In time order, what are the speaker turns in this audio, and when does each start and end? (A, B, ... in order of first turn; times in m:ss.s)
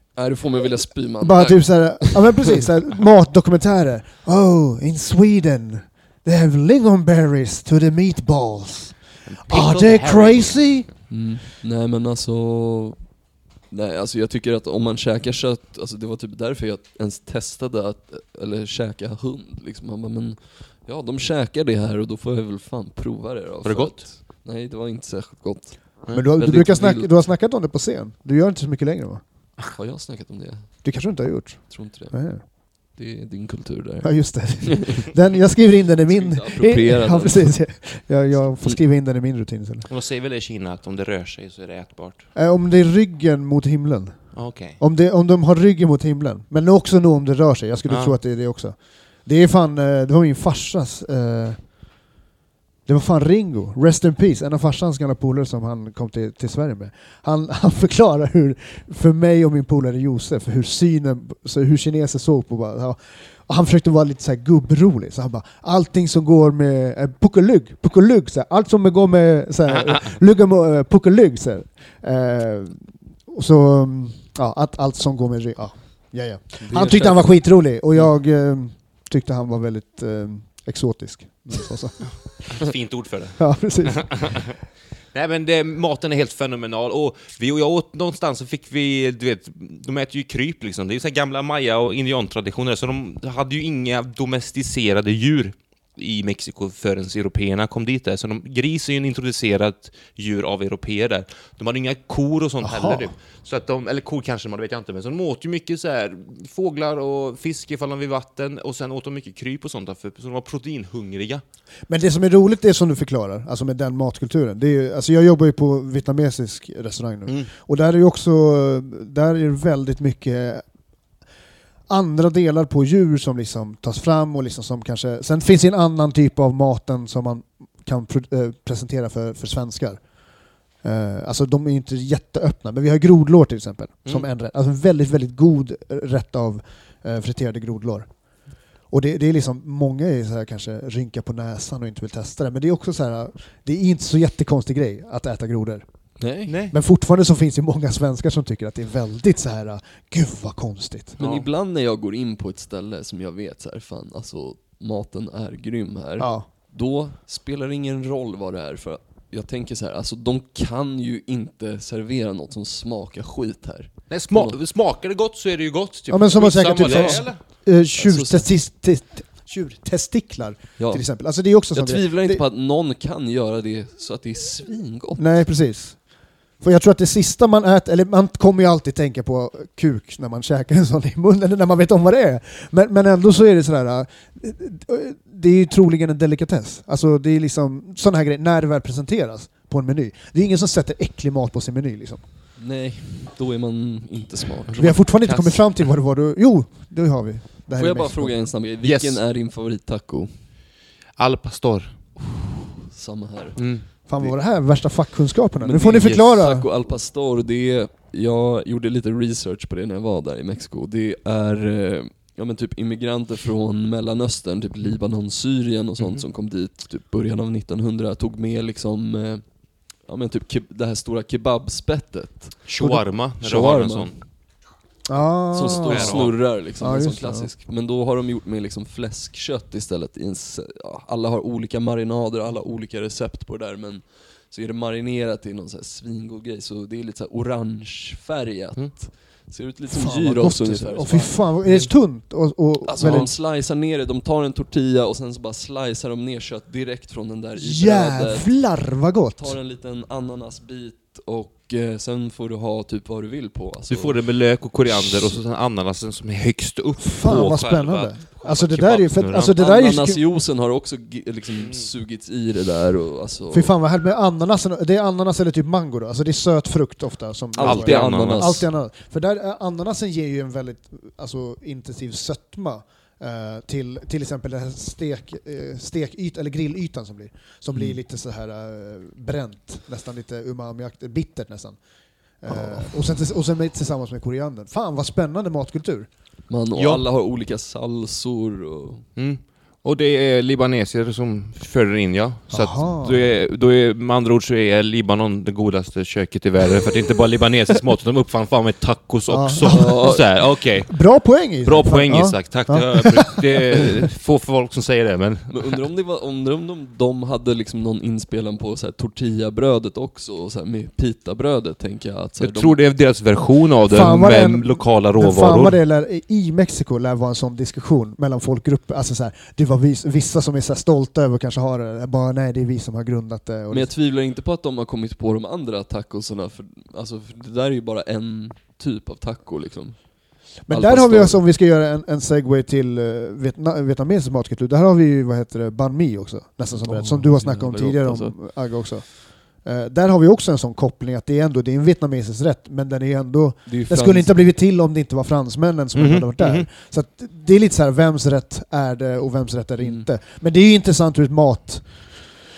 0:00.2-0:02.6 A
0:01.2-0:10.9 B
0:09.3-0:10.8 C
0:11.1-0:27.1 A
0:23.6-0:24.0 C
0:26.1-0:29.2 B
0:29.7-0:35.0 A
0:30.8-0:32.4 B
0:34.0-0:39.9 B
0:36.1-0:38.8 A
0:39.9-0:42.3 C
0:42.4-0:51.8 B
0:44.3-0:44.8 C
0:47.9-0:48.2 C
0:52.9-1:22.6 B
1:09.7-1:10.1 C
1:16.6-1:18.1 A
1:22.5-1:24.6 C
1:23.4-1:24.5 B
1:25.1-1:51.4 C
1:42.6-1:43.1 B
1:51.9-2:00.6 B
2:01.9-2:10.0 B
2:10.8-2:18.1 B
2:18.9-2:25.8 B
2:26.2-2:26.6 A
2:26.5-2:26.8 C
2:26.7-2:31.2 B
2:31.2-2:31.5 C
2:31.2-2:44.6 A
2:36.2-2:36.5 B
2:44.1-2:47.4 C
2:46.1-2:52.4 B
2:46.8-2:48.6 A
2:50.8-2:55.3 A
2:55.2-3:12.2 B
3:12.6-3:15.0 A
3:14.7-3:15.7 C
3:14.8-3:18.4 B
3:17.8-3:20.4 A
3:18.8-3:19.2 C
3:21.2-3:22.0 C
3:22.2-3:24.3 A
3:23.6-3:23.8 C
3:24.1-3:26.7 B
3:25.6-3:44.3 A
3:36.0-3:36.2 C
3:42.7-3:44.2 C
3:45.1-3:47.5 B
3:45.5-4:01.4 A
3:45.9-3:46.4 C
3:59.9-4:03.3 B
4:01.6-4:01.9 C
4:02.9-4:14.2 A
4:07.6-4:09.6 B
4:13.9-4:19.5 C
4:14.7-4:15.4 A
4:17.0-4:20.2 B
4:19.6-4:23.7 A
4:21.6-4:21.9 C
4:23.5-4:41.8 B
4:27.6-4:28.7 A
4:27.6-4:28.6 C
4:42.4-4:46.1 B
4:42.5-4:42.9 C
4:46.5-4:49.1 A
4:46.8-4:47.0 C
4:49.2-5:01.0 C
4:52.5-4:53.2 B
4:59.3-5:03.4 B
4:59.6-5:00.2 A
5:01.6-5:05.8 C
5:05.5-5:12.8 A
5:12.4-5:15.8 C
5:13.9-5:23.9 B
5:23.7-5:31.4 A
5:30.6-5:52.4 B
5:36.8-5:38.4 A
5:43.7-5:44.4 A
5:46.0-5:46.7 C
5:49.8-5:50.1 A